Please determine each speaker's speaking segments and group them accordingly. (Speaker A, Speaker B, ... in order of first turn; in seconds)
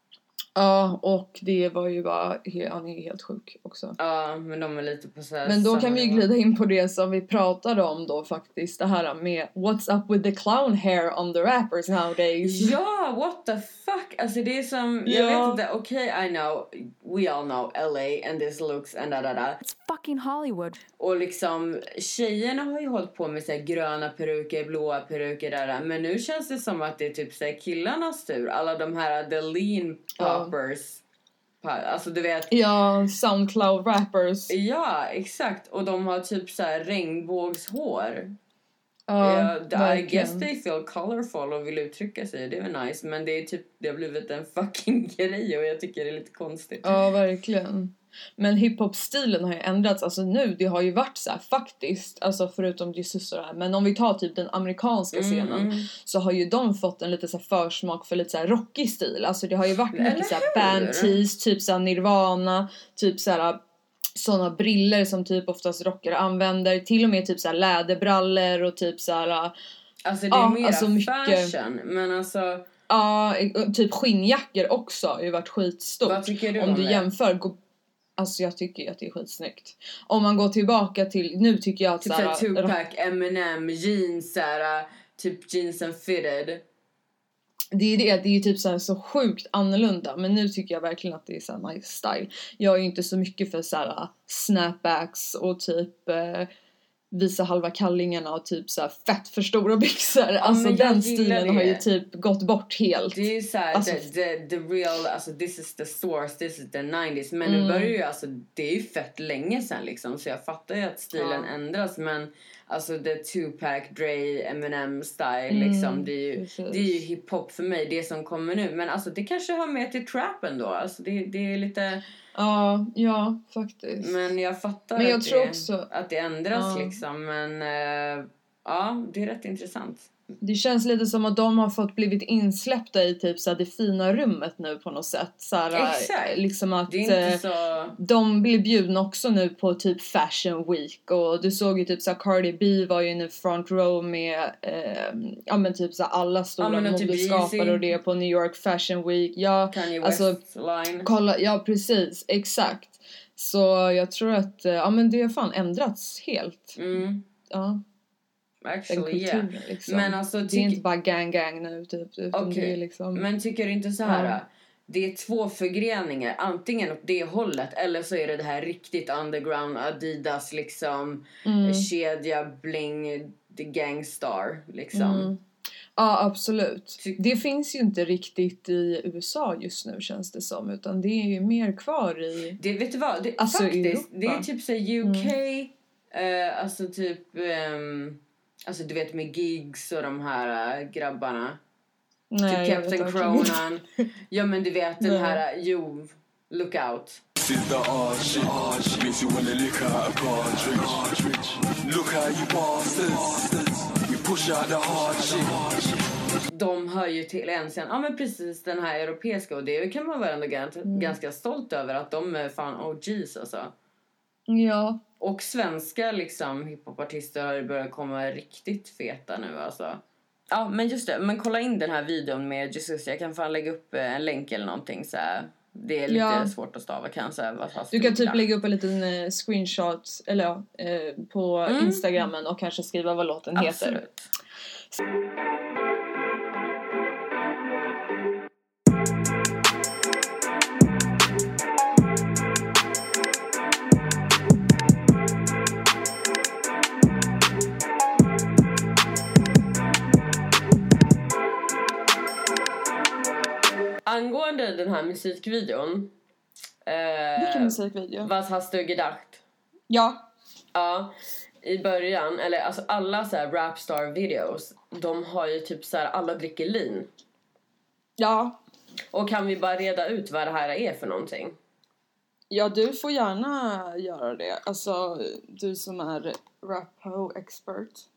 Speaker A: 0.6-4.0, 5.5-12.8, 15.1-15.6, 19.7-20.8, 30.2-30.5, 32.5-34.5, 39.1-40.5, 46.8-63.6, 64.1-69.5, 70.3-71.5, 72.9-77.6, 78.2-82.8, 87.7-96.5, 97.1-104.1, 107.4-107.9, 111.1-111.5, 115.5-117.0, 122.3-124.1, 125.0-125.9, 126.5-127.0, 130.4-137.4, 138.0-150.4, 151.0-156.8, 157.5-157.8, 158.9-163.2, 164.1-164.4, 171.4-171.9, 174.9-175.4, 176.0-182.6, 183.4-184.4, 185.0-185.3, 192.3-193.6, 195.0-195.4, 210.9-211.2, 214.5-215.0, 226.1-226.5, 227.9-234.0, 257.4-258.3, 259.9-260.2, 268.2-268.6, 272.5-278.1
Speaker B: 4.0-6.3, 12.4-19.6, 21.0-31.0, 31.6-32.5, 34.5-38.4, 39.2-47.0, 55.1-55.9, 59.9-61.2, 70.0-72.7, 76.0-77.1, 82.0-86.6, 100.4-101.8, 103.1-122.0, 124.0-130.1, 135.7-138.0, 146.6-147.8, 149.7-151.1, 156.8-157.2, 158.6-160.8, 162.3-175.3, 182.6-191.6, 192.5-197.2, 206.5-213.7, 215.2-228.4, 231.7-232.1, 233.6-234.3, 254.1-256.1, 256.9-259.4, 260.8-267.1, 269.1-271.6
Speaker C: 197.4-206.0